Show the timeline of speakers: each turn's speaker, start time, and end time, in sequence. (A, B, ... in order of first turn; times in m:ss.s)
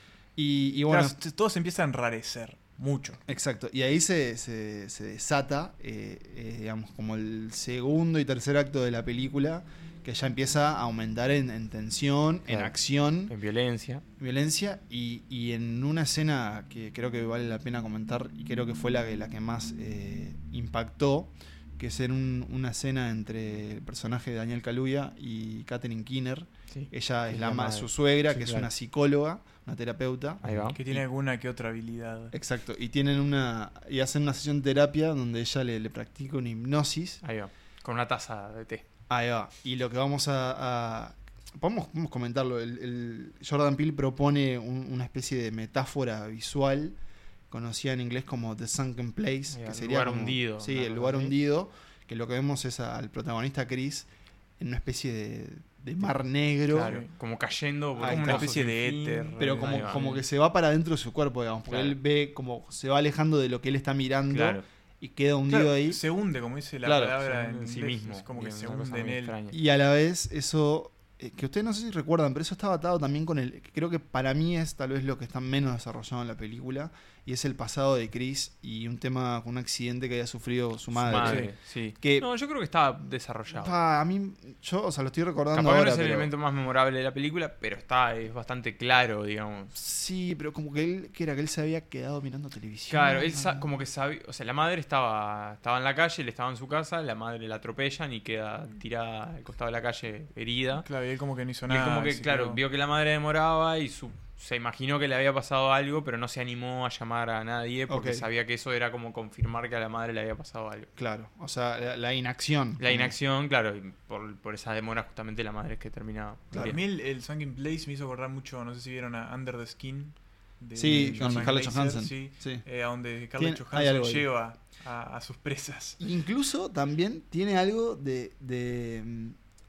0:00.4-0:01.2 A
0:00.9-0:03.2 B
0:03.3-0:13.3 A
0:12.5-0:12.8 C
0:13.2-0:14.0 C
0:14.2-0:31.0 A
0:26.7-0:28.7 C
0:30.4-0:30.8 C
0:30.8-0:32.3 B
0:32.3-0:37.2 A
0:37.2-0:38.8 C
0:39.1-0:47.0 A
0:47.5-0:54.1 A
0:49.5-0:51.3 C
0:54.6-0:57.0 A
0:56.7-0:57.1 B
0:56.7-1:00.2 C
0:58.0-1:00.2 B
0:58.0-0:58.6 A
0:59.4-1:06.0 A
1:01.7-1:02.0 C
1:04.3-1:04.6 C
1:05.5-1:09.3 B
1:06.8-1:09.6 C
1:09.5-1:22.3 A
1:20.9-1:23.8 C
1:23.5-1:26.3 A
1:25.5-1:29.7 C
1:29.7-1:33.7 A
1:32.9-1:40.9 C
1:40.8-1:42.6 B
1:41.7-1:50.9 C
1:47.9-1:48.3 A
1:51.0-1:53.2 A
1:52.8-1:56.8 C
1:56.5-1:56.8 A
1:56.5-2:06.0 B
2:00.8-2:02.6 A
2:00.8-2:01.5 C
2:03.3-2:04.3 A
2:06.0-2:09.4 A